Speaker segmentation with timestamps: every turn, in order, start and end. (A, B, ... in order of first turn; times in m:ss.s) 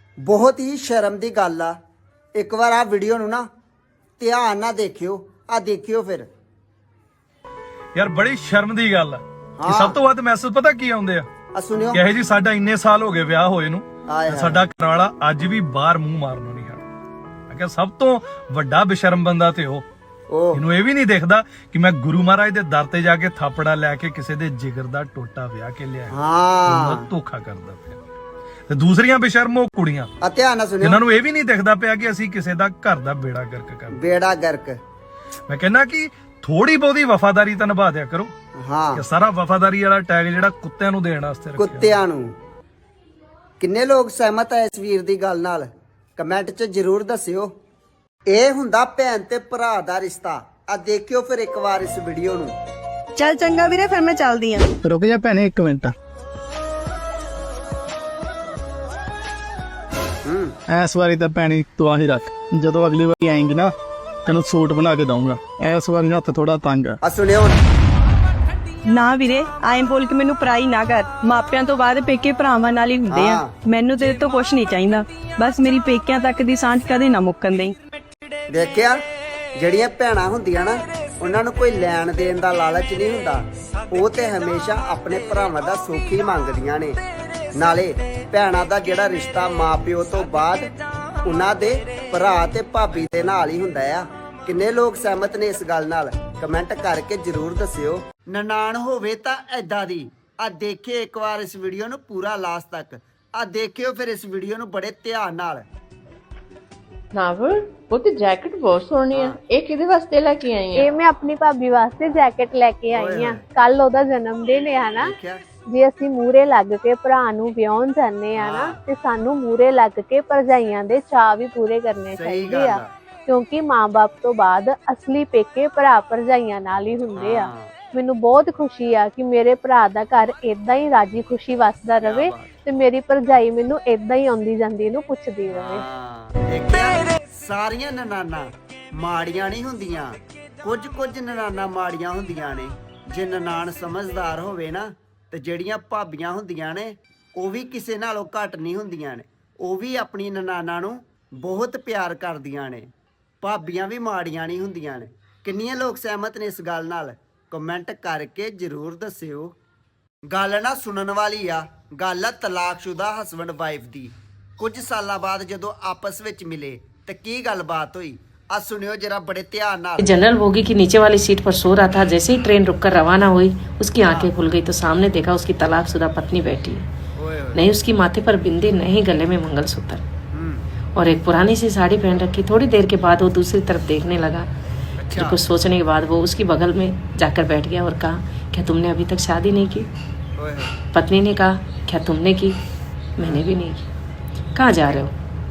0:00.2-0:01.7 A
0:02.4-0:03.4 A
0:04.2-0:06.3 A
0:08.0-0:11.2 B
0:09.6-0:10.0 A
0:11.6-0:12.0 A
0:11.9-0:16.8 B
0:14.1-0:14.6 A
0:17.5-0:19.8 B
0:20.3-0:20.6 A
0:20.5-0:26.1 B
0:26.1-0:27.0 A
0:26.7-0:28.0 B
0:28.7-0:30.1 B
0:30.2-0:31.0 A
0:30.8-0:34.1 B
0:33.9-0:34.8 A
0:35.5-0:38.3 B
0:38.6-0:39.0 A
0:38.9-0:42.0 B
0:41.6-0:42.3 A
0:43.6-0:47.5 A
0:48.3-0:52.5 A
0:53.2-0:54.6 C
0:54.8-0:55.9 D
1:00.2-1:00.5 A
1:00.7-1:03.7 D
1:04.2-1:07.0 D
1:07.0-1:07.6 A
1:08.9-1:17.7 C
1:13.1-1:13.5 A
1:18.5-1:19.0 A
1:19.6-1:27.0 A
1:27.6-1:30.7 A
1:31.2-1:45.6 A
1:47.1-1:50.9 E
1:49.1-1:49.4 A
1:50.7-1:55.1 F
1:52.9-1:53.4 A
1:55.0-1:55.4 A
1:55.7-2:15.8 F
1:58.3-1:58.8 A
2:02.2-2:02.9 A
2:07.1-2:07.7 A
2:12.0-2:12.5 A
2:15.5-2:32.9 A
2:33.4-2:39.5 A
2:40.3-2:50.1 A
2:50.0-2:56.8 G
2:54.0-2:54.3 A
2:57.2-2:57.6 A
2:57.5-3:00.0 G
3:00.3-3:00.6 A
3:01.0-3:04.5 G
3:05.0-3:05.4 A
3:05.1-3:09.9 G
3:10.4-3:10.7 A
3:10.9-3:12.6 G
3:13.2-3:13.8 G
3:13.2-3:13.4 A
3:14.6-3:15.1 G
3:14.8-3:15.0 A